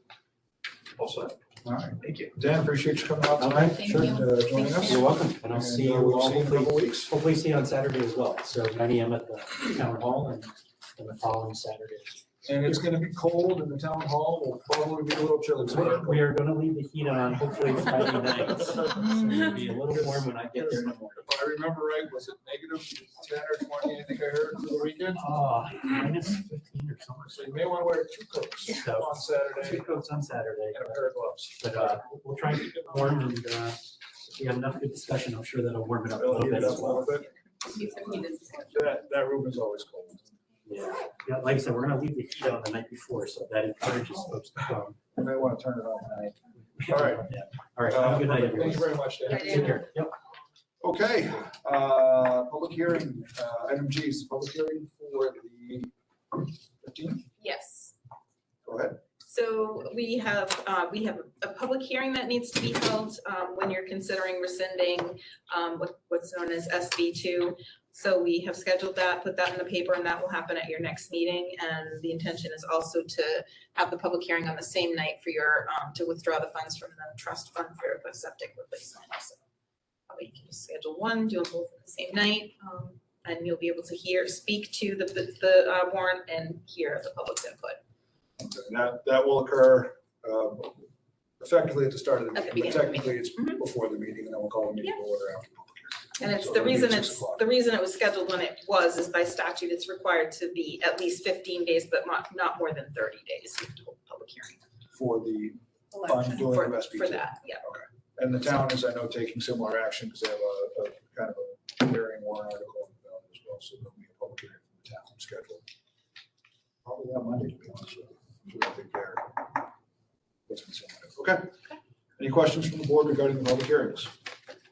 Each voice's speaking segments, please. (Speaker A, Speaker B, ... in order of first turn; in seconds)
Speaker A: 1.6-7.1, 12.4-16.3, 19.4-25.2, 27.3-29.9, 30.7-32.0, 36.2-37.3, 38.7-40.4, 45.1-47.3, 47.8-49.8, 50.8-57.2, 58.6-59.0, 88.4-90.8, 91.4-97.4, 104.9-115.6, 116.8-119.6, 120.5-121.6, 122.2-124.1
Speaker B: 3.4-12.2, 15.6-21.3, 25.1-27.5, 28.6-31.0, 31.6-37.2, 37.8-38.2, 40.6-45.0, 46.8-50.1
Speaker C: 37.7-38.7, 57.4-57.9, 59.2-79.4, 80.1-87.8, 92.3-93.6, 96.2-104.6, 105.9-107.6